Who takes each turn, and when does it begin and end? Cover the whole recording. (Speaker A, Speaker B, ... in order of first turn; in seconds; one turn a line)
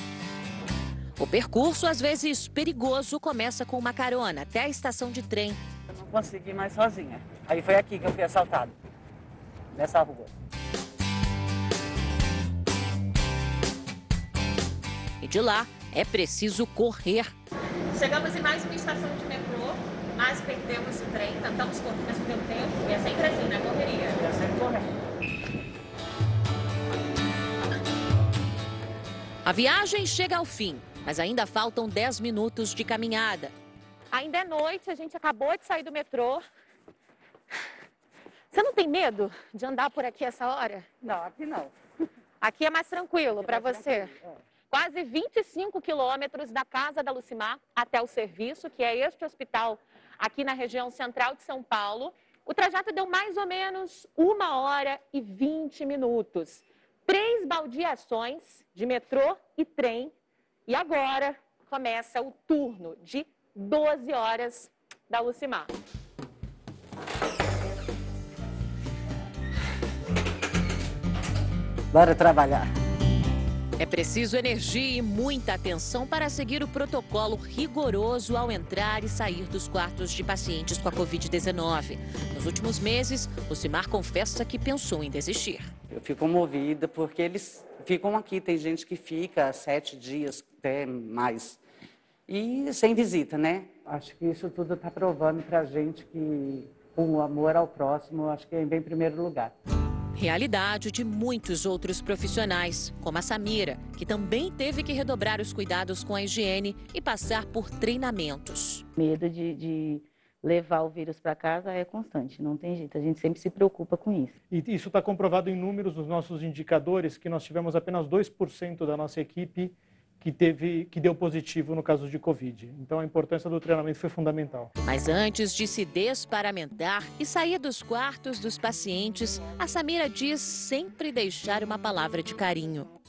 Speaker A: 1.2-5.6
Speaker B: 5.9-8.7
Speaker B: 9.7-10.3
Speaker A: 15.2-17.3
Speaker C: 17.9-24.2
Speaker B: 24.2-24.8
Speaker A: 29.4-33.5
Speaker C: 34.1-36.4
Speaker C: 38.5-40.9
Speaker B: 41.0-41.7
Speaker C: 42.4-44.1
Speaker B: 43.4-44.3
Speaker C: 44.7-60.1
Speaker C: 60.7-65.7
Speaker B: 71.9-72.7
Speaker A: 73.8-85.7
Speaker B: 85.9-91.6
Speaker B: 92.3-99.5
Speaker A: 100.1-108.8
Speaker D: 109.0-114.3
Speaker E: 114.5-124.7
Speaker A: 124.8-132.9